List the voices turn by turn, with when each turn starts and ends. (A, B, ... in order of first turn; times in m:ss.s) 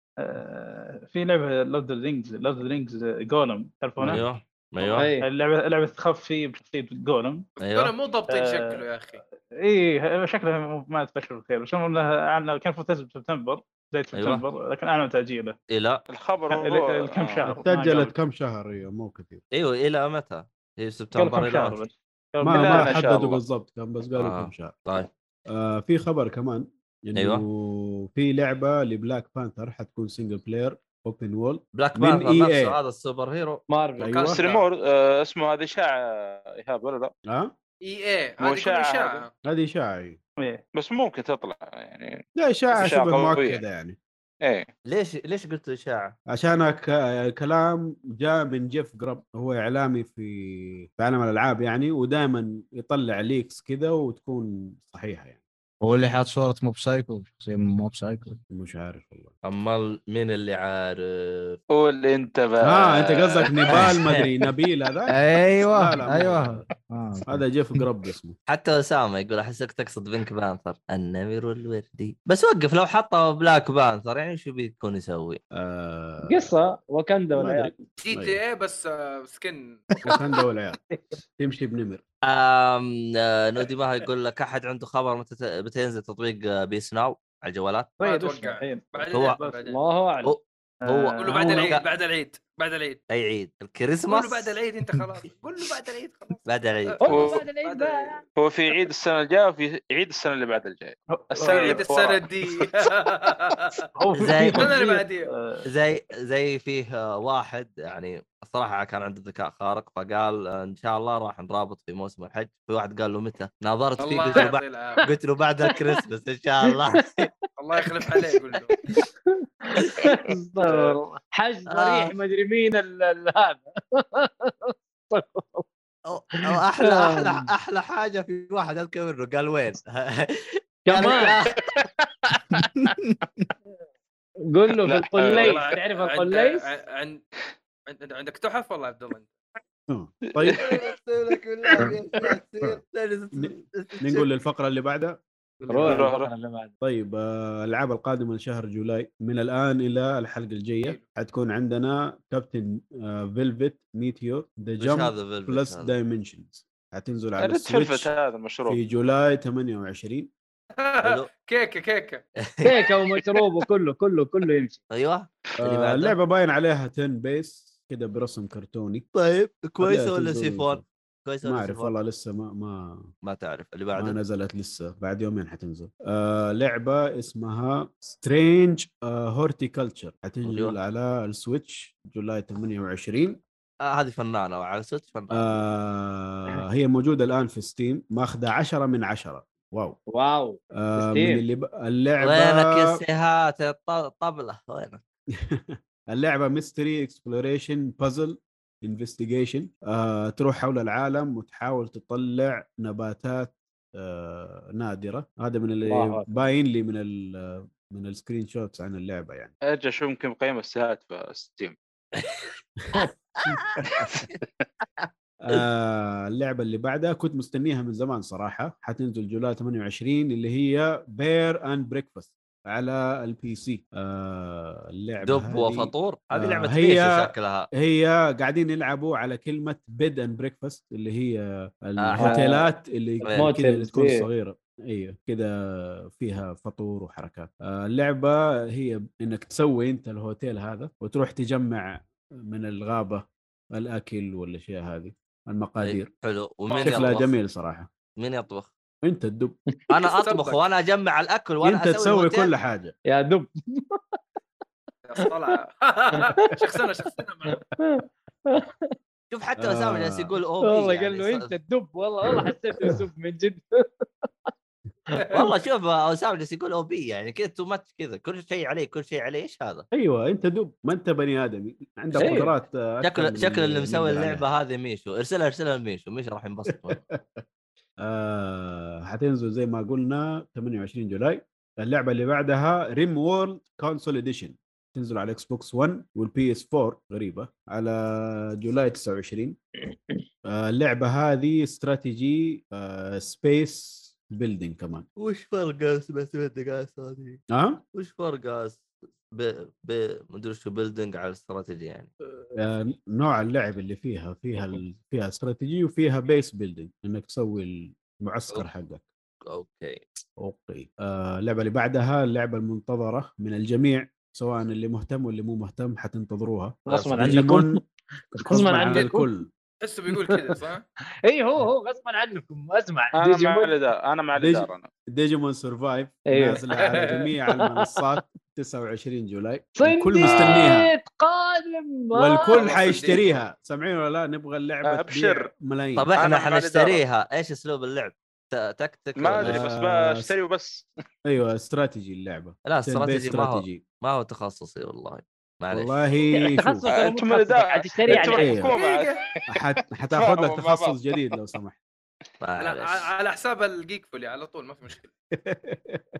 0:00.2-0:04.2 A
0:04.0-0:05.1 B
0:04.8-0:07.4 A
0:04.9-0:05.3 C
0:07.6-0:07.9 B
0:07.7-0:09.2 D
0:08.3-0:08.8 A
0:09.6-0:15.6 A
0:14.1-0:14.4 B
0:15.7-0:16.0 B
0:16.1-0:17.6 E
0:16.6-0:18.1 A
0:17.6-0:19.4 F
0:19.5-0:21.8 B
0:21.2-0:23.0 A
0:22.4-0:24.8 F
0:22.5-0:23.4 E
0:24.2-0:25.1 B
0:25.5-0:32.8 F
0:27.2-0:27.4 B
0:31.7-0:33.6 B
0:33.7-0:34.3 C
0:34.0-0:34.4 F
0:34.1-0:34.6 D
0:34.3-0:37.1 E
0:37.3-0:37.6 F
0:37.8-0:39.3 D
0:38.4-0:39.2 E
0:39.4-0:40.2 F
0:40.7-0:43.6 E
0:42.4-0:44.0 F
0:44.4-0:44.7 E
0:44.9-0:46.2 B
0:46.3-0:55.4 F
0:55.8-0:58.4 G
0:58.5-0:59.3 F
0:59.4-1:01.6 B
1:01.7-1:03.9 E
1:02.6-1:05.2 F
1:05.1-1:07.4 G
1:05.6-1:06.7 F
1:07.3-1:08.4 F
1:08.5-1:15.4 B
1:15.5-1:16.5 F
1:16.3-1:17.7 C
1:17.3-1:18.4 F
1:18.0-1:19.9 D
1:20.0-1:20.8 F
1:21.4-1:22.0 F
1:22.3-1:27.9 B
1:28.0-1:29.6 A
1:28.0-1:29.8 D
1:29.1-1:29.4 B
1:29.6-1:30.4 C
1:30.2-1:31.9 B
1:30.9-1:31.5 A
1:31.2-1:33.0 D
1:33.1-1:34.6 B
1:34.1-1:38.2 D
1:36.4-1:37.4 B
1:37.1-1:37.4 E
1:37.2-1:38.2 C
1:38.4-1:42.7 E
1:41.1-1:41.8 A
1:41.4-1:43.9 D
1:44.0-1:45.6 A
1:44.2-1:44.8 B
1:44.4-1:45.3 D
1:45.6-1:57.3 B
1:54.0-1:55.0 D
1:56.7-1:57.3 C
1:57.6-1:58.7 D
1:59.6-2:05.7 C
2:01.7-2:02.1 B
2:06.1-2:11.6 B
2:06.5-2:07.5 C
2:10.9-2:11.5 C
2:12.7-2:13.2 G
2:14.5-2:16.8 C
2:14.8-2:15.6 E
2:15.3-2:17.2 D
2:17.9-2:19.3 D
2:19.9-2:20.6 F
2:20.2-2:20.8 E
2:20.6-2:24.3 B
2:23.3-2:26.2 F
2:25.7-2:26.7 C
2:25.8-2:26.3 E
2:26.8-2:38.1 F
2:34.8-2:35.9 B
2:37.4-2:38.8 E
2:38.6-2:40.3 F
2:40.8-2:42.2 D
2:41.0-2:41.3 B
2:42.5-2:43.2 B
2:42.6-2:44.8 C
2:44.9-2:46.2 B
2:45.6-2:49.0 F
2:49.2-2:51.9 B
2:49.8-2:50.9 F
2:51.4-2:53.1 F
2:53.2-2:54.2 B
2:54.0-3:03.4 F
3:00.4-3:00.8 B
3:03.8-3:05.6 B
3:05.3-3:10.0 F
3:10.1-3:11.4 C
3:10.7-3:12.9 F
3:12.2-3:15.0 B
3:15.5-3:29.5 F
3:25.9-3:26.5 C
3:29.6-3:31.7 E
3:32.2-3:32.4 B
3:32.8-3:34.2 F
3:33.8-3:34.3 B
3:35.0-3:35.6 B
3:35.4-4:06.1 F
3:45.2-3:47.7 B
3:52.0-3:52.4 B
3:52.2-3:52.7 C
3:53.2-3:53.5 B
3:53.3-3:54.3 C
4:05.8-4:07.3 B
4:06.8-4:07.9 F
4:08.2-4:08.7 B
4:09.0-4:09.6 F
4:09.9-4:12.5 B
4:10.2-4:10.6 D
4:11.6-4:12.9 F
4:13.1-4:14.1 C
4:15.1-4:17.6 D
4:16.2-4:16.5 C
4:17.6-4:18.9 C
4:19.3-4:21.5 B
4:19.6-4:20.3 F
4:20.6-4:24.5 C
4:22.2-4:23.0 F
4:25.1-4:25.4 C
4:25.3-4:29.9 B
4:29.9-4:34.4 F
4:32.2-4:32.6 C
4:33.0-4:37.0 B
4:36.7-4:37.4 F
4:38.0-4:49.6 F
4:49.9-4:50.2 C
4:50.4-4:55.1 F
4:55.2-4:57.4 B
4:57.5-4:57.8 F
4:57.9-5:02.1 B
5:02.4-5:09.0 F
5:09.4-5:10.2 B
5:10.4-5:17.8 F
5:16.9-5:17.8 C
5:16.9-5:17.5 B
5:18.4-5:19.5 F
5:18.4-5:19.3 C
5:19.8-5:20.8 D
5:21.3-5:23.7 C
5:23.2-5:24.9 E
5:24.4-5:30.9 F
5:26.3-5:26.6 C
5:26.9-5:27.2 D
5:27.6-5:28.2 C
5:29.8-5:32.6 C
5:30.3-5:30.8 B
5:32.2-5:36.1 F
5:32.4-5:33.4 D
5:34.8-5:35.5 E
5:36.0-5:39.7 B
5:36.2-5:37.0 E
5:39.2-5:40.9 E
5:39.4-5:40.3 F
5:41.3-5:43.8 F
5:42.6-5:45.9 B
5:45.7-5:46.9 F
5:46.4-5:48.7 C
5:46.9-5:49.5 E
5:48.1-5:48.8 F
5:49.5-5:51.8 F
5:50.1-5:51.3 E
5:52.4-5:53.1 B
5:52.6-5:55.1 D
5:55.3-5:56.0 F